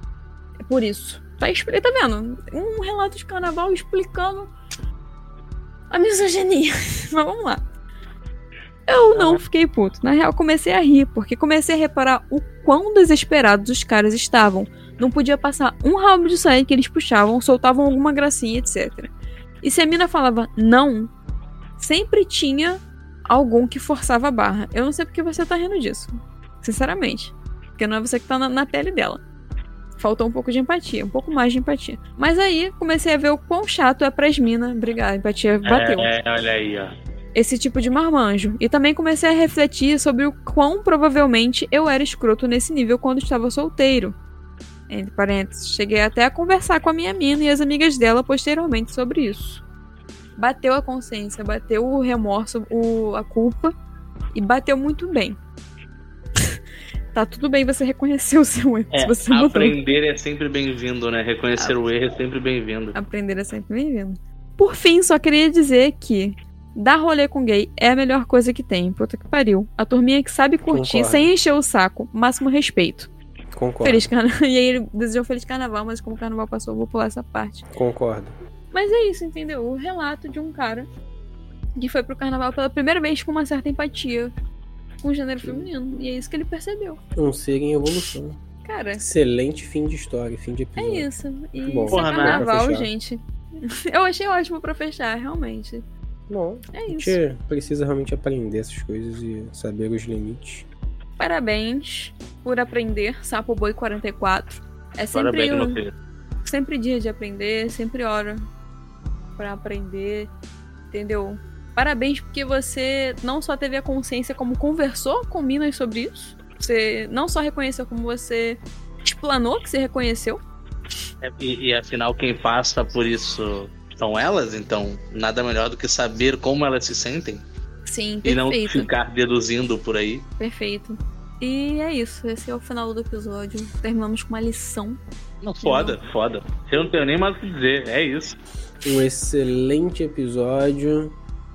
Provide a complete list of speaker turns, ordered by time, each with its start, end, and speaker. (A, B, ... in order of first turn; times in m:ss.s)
0:00.6-0:04.5 A
0:05.9-0:07.6 A
0:08.9-0:21.1 A
0:09.1-0:09.4 B
0:21.8-0:29.2 A
0:30.0-0:36.1 A
0:35.6-0:36.9 B
0:37.4-0:44.2 A
0:44.9-0:49.6 A
0:50.4-0:53.7 A
0:54.3-0:55.4 A
0:57.1-0:59.8 A
0:58.9-1:03.0 B
1:01.6-1:01.9 A
1:03.0-1:13.1 A
1:10.7-1:11.3 C
1:13.5-1:14.1 C
1:13.8-1:17.7 A
1:17.7-1:18.4 C
1:18.7-1:20.9 A
1:21.8-1:24.3 A
1:25.0-1:27.0 A
1:25.4-1:25.7 C
1:27.2-1:28.4 C
1:28.6-1:29.0 A
1:29.0-1:31.1 C
1:30.8-1:35.8 A
1:31.6-1:32.9 C
1:31.9-1:32.5 B
1:36.3-1:40.7 C
1:36.7-1:37.2 A
1:41.2-1:45.8 A
1:45.1-1:45.9 B
1:46.4-1:48.5 A
1:49.4-1:50.3 A
1:50.9-2:00.4 A
2:01.2-2:07.4 B
2:07.9-2:08.9 A
2:08.2-2:10.3 B
2:10.4-2:15.0 A
2:15.4-2:18.4 B
2:15.6-2:16.0 A
2:18.8-2:21.1 C